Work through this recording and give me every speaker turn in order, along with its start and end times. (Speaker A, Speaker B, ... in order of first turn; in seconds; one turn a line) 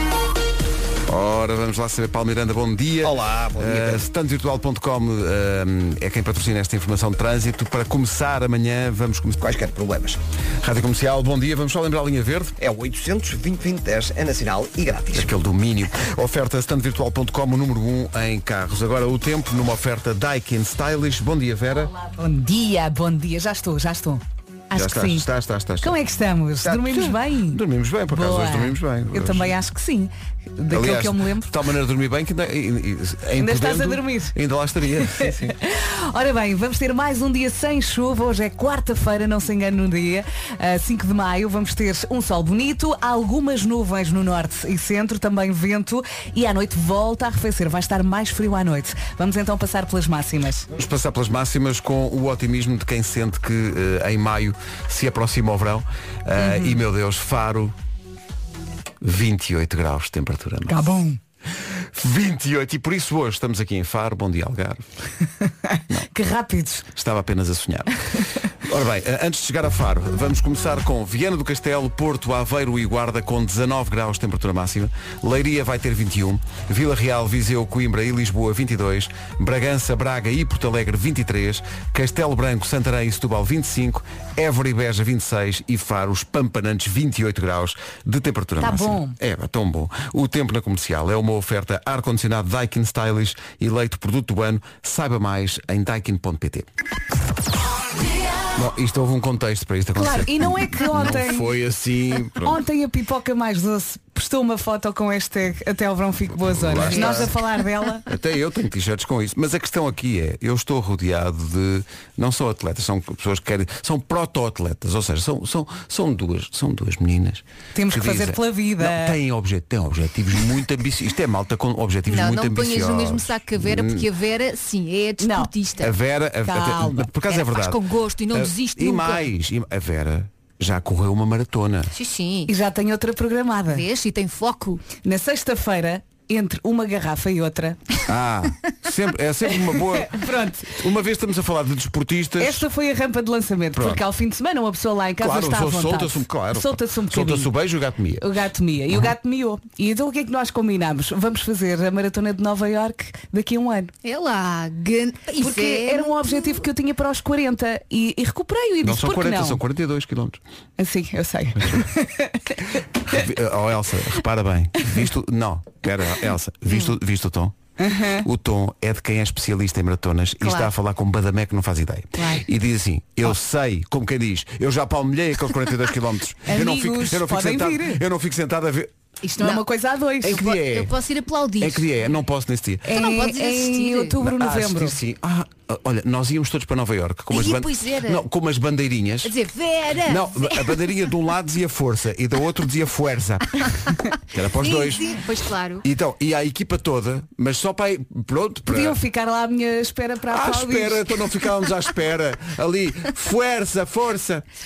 Speaker A: 1.1-9.4
Speaker B: 3.0-4.0
Speaker B: 9.4-10.2
Speaker A: 10.6-12.5
Speaker B: 12.6-15.3
Speaker A: 15.1-21.9
Speaker C: 22.1-25.2
Speaker A: 24.7-25.9
Speaker C: 25.8-31.5
Speaker A: 26.6-29.5
Speaker A: 30.7-35.5
Speaker C: 33.4-34.3
Speaker C: 35.0-50.6
Speaker A: 50.7-57.7
Speaker C: 56.4-56.8
Speaker A: 59.0-60.9
Speaker C: 60.7-61.2
Speaker A: 61.9-64.9
Speaker C: 65.4-66.9
Speaker A: 66.9-67.9
Speaker A: 68.6-96.7
Speaker C: 88.6-89.2
Speaker A: 98.5-102.6
Speaker C: 99.9-101.5
Speaker C: 102.4-108.0
Speaker A: 106.4-107.3
Speaker D: 106.8-107.3
Speaker A: 108.0-124.0
Speaker C: 117.7-119.2
Speaker D: 122.1-126.0
Speaker C: 125.2-125.5
Speaker A: 125.8-127.8
Speaker C: 126.4-127.1
Speaker D: 127.3-129.2
Speaker A: 128.3-131.9
Speaker D: 131.9-132.5
Speaker C: 132.5-133.8
Speaker D: 133.7-134.9
Speaker C: 134.9-137.8
Speaker A: 138.1-142.7
Speaker C: 139.9-140.7
Speaker C: 142.4-147.5
Speaker A: 143.7-144.0
Speaker A: 145.2-148.2
Speaker C: 148.2-153.9
Speaker D: 154.0-156.7
Speaker C: 155.4-159.6
Speaker A: 158.8-160.4
Speaker C: 160.8-162.6
Speaker A: 163.1-167.6
Speaker D: 166.7-166.9
Speaker C: 167.8-168.2
Speaker A: 168.2-178.9
Speaker D: 170.4-170.7
Speaker D: 172.2-172.4
Speaker C: 176.4-178.0
Speaker D: 179.2-179.6
Speaker C: 179.4-180.4
Speaker A: 180.2-180.9
Speaker D: 180.3-181.9
Speaker A: 181.6-182.9
Speaker C: 182.9-184.9
Speaker D: 182.9-184.2
Speaker A: 184.2-189.3
Speaker D: 187.3-188.3
Speaker D: 189.2-190.9
Speaker A: 190.1-193.6
Speaker A: 194.3-195.2
Speaker D: 194.6-195.8
Speaker A: 195.8-199.0
Speaker C: 198.7-201.2
Speaker A: 200.3-204.4